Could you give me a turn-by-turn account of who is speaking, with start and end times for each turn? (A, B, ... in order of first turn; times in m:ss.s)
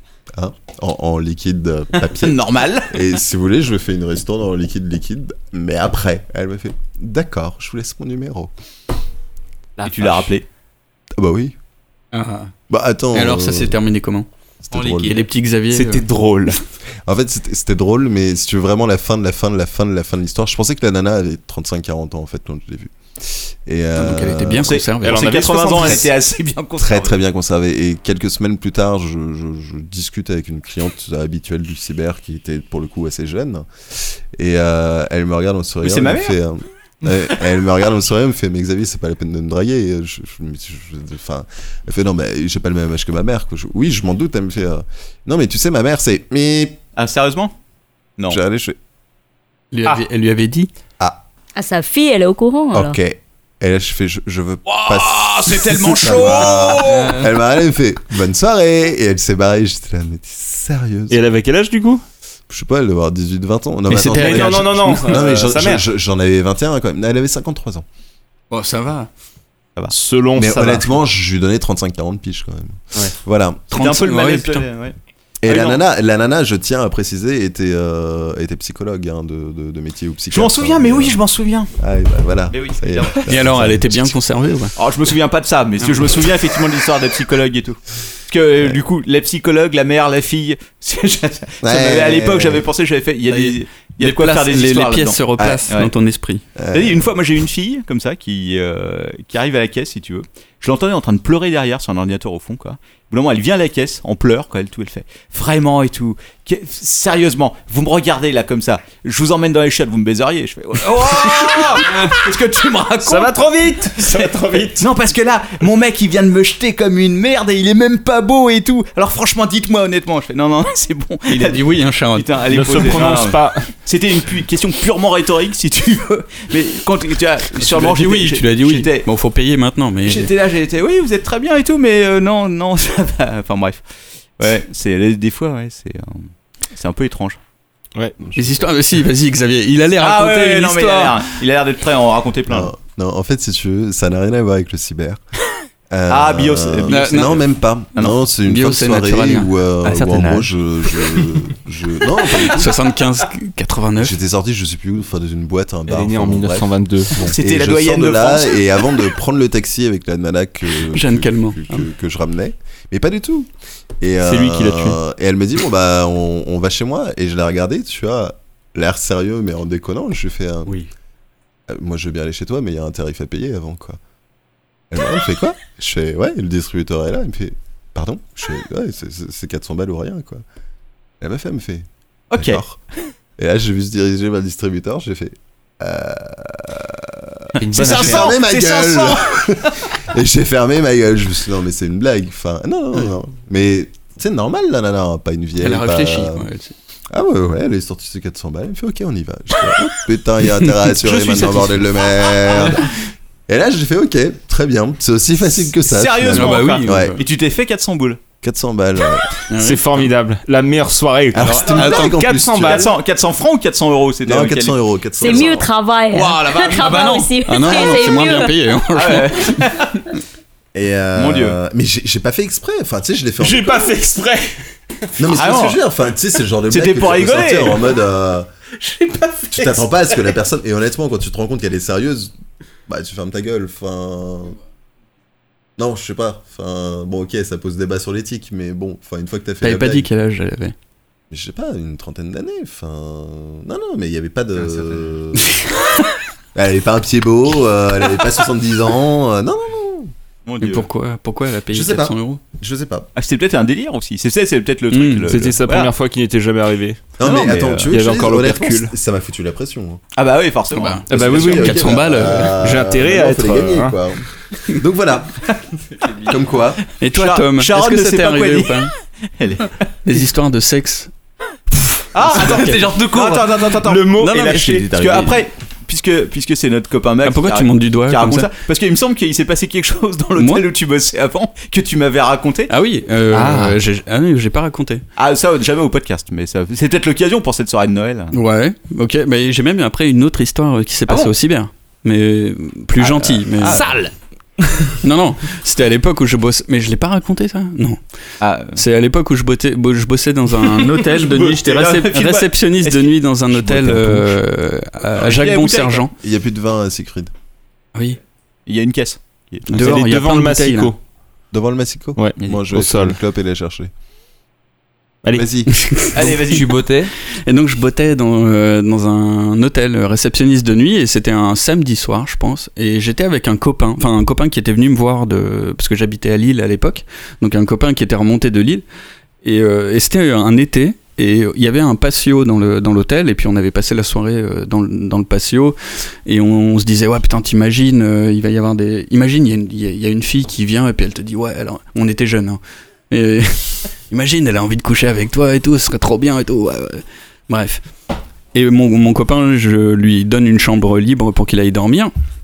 0:00.3-0:08.5 A
0:02.1-0:03.1 B
0:09.8-0:10.1 C
0:09.8-0:10.4 B
0:11.2-0:11.5 A
0:12.1-0:12.5 D
0:12.7-0:13.8 A
0:13.1-0:14.3 D
0:14.7-0:15.2 A
0:14.7-0:15.2 E
0:14.9-0:16.1 D
0:15.7-0:16.6 C
0:17.1-0:24.7 A
0:24.0-0:26.0 D
0:24.6-0:27.2 B
0:25.0-0:26.1 C
0:26.8-0:46.8 A
0:35.8-0:36.4 B
0:47.0-0:47.5 B
0:48.3-0:48.8 A
0:49.7-0:50.7 D
0:51.6-0:53.0 F
0:52.7-1:01.2 A
0:54.8-0:57.2 B
0:56.9-0:57.2 E
1:01.1-1:02.0 C
1:02.5-1:07.8 A
1:03.9-1:05.1 D
1:03.9-1:05.8 C
1:08.5-1:09.1 D
1:09.9-1:10.9 C
1:10.4-1:13.7 A
1:13.7-1:14.6 D
1:13.7-1:14.9 B
1:15.4-1:21.2 A
1:15.4-1:15.8 B
1:20.3-1:21.7 B
1:21.8-1:24.1 A
1:22.5-1:23.3 B
1:23.2-1:24.7 D
1:24.8-1:35.9 B
1:25.8-1:26.1 D
1:31.6-1:32.6 A
1:33.3-1:36.4 D
1:35.4-1:35.6 A
1:36.6-1:37.1 A
1:36.7-2:09.1 B
1:51.3-1:52.2 C
1:53.0-1:54.8 C
2:01.3-2:03.2 D
2:02.5-2:03.7 C
2:07.5-2:10.3 D
2:10.0-2:13.8 B
2:14.4-2:17.4 B
2:18.2-2:18.6 A
2:18.3-2:21.3 D
2:20.0-2:22.7 B
2:22.5-2:25.2 A
2:25.9-2:32.7 A
2:26.1-2:27.4 B
2:26.9-2:27.4 D
2:28.4-2:29.5 D
2:29.8-2:31.3 E
2:32.4-2:34.2 D
2:34.0-2:43.5 A
2:35.9-2:37.1 C
2:37.2-2:38.7 B
2:40.9-2:41.9 D
2:44.0-2:50.8 A
2:44.2-2:44.9 D
2:51.7-2:54.0 A
2:54.9-3:00.4 A
3:01.2-3:02.8 A
3:02.3-3:02.6 B
3:03.4-3:16.5 A
3:07.6-3:08.3 C
3:07.7-3:09.6 B
3:15.6-3:16.7 D
3:17.1-3:22.9 A
3:21.1-3:21.8 B
3:23.5-3:27.2 A
3:25.9-3:28.2 B
3:26.3-3:27.2 D
3:28.4-3:29.3 A
3:29.5-3:30.1 D
3:29.5-3:32.9 C
3:31.3-3:32.9 A
3:31.4-3:32.0 B
3:32.5-3:38.2 B
3:34.2-3:35.6 A
3:35.2-3:38.5 F
3:36.7-3:39.7 D
3:38.9-3:40.0 B
3:40.7-3:43.9 A
3:41.1-3:41.6 B
3:43.4-3:44.6 C
3:45.2-3:48.5 A
3:45.3-3:45.8 B
3:46.7-3:47.8 B
3:48.8-3:50.3 C
3:49.5-3:52.3 A
3:52.9-3:54.6 A
3:55.8-4:00.1 A
3:59.6-4:00.7 D
4:01.3-4:05.6 A
4:06.5-4:10.1 A
4:10.4-4:10.9 B
4:10.6-4:12.4 D
4:11.7-4:13.1 A
4:13.2-4:15.9 B
4:14.9-4:15.3 D
4:15.3-4:17.0 C
4:17.2-4:20.0 A
4:17.2-4:17.9 B
4:17.9-4:18.9 C
4:20.1-4:21.1 B
4:20.7-4:22.7 D
4:21.1-4:21.8 C
4:21.1-4:24.2 A
4:22.4-4:24.0 C
4:24.7-4:25.4 A
4:26.2-4:26.8 A
4:27.0-4:28.9 D
4:27.0-4:30.2 B
4:30.0-4:31.1 D
4:32.1-4:42.7 B
4:32.3-4:33.8 E
4:32.4-4:32.9 D
4:34.0-4:35.3 D
4:34.6-4:35.3 E
4:37.2-4:38.5 D
4:40.4-4:40.6 D
4:42.7-4:45.0 D
4:43.3-4:43.8 B
4:45.2-4:48.4 B
4:48.3-4:54.0 D
4:51.1-4:51.3 B
4:53.0-4:54.0 B
4:53.7-4:54.0 E
4:55.0-4:58.0 D
4:58.4-4:58.8 B
4:58.7-5:06.1 D
5:00.8-5:04.4 B
5:05.2-5:06.1 B
5:06.2-5:07.3 A
5:08.7-5:10.0 B
5:09.7-5:10.9 D
5:09.8-5:11.0 C
5:11.5-5:13.9 A
5:12.2-5:13.2 C
5:15.3-5:15.7 A
5:15.7-5:16.4 D
5:16.1-5:16.7 B
5:16.2-5:17.1 E
5:17.4-5:28.8 D
5:29.4-5:47.8 D
5:48.5-5:52.1 D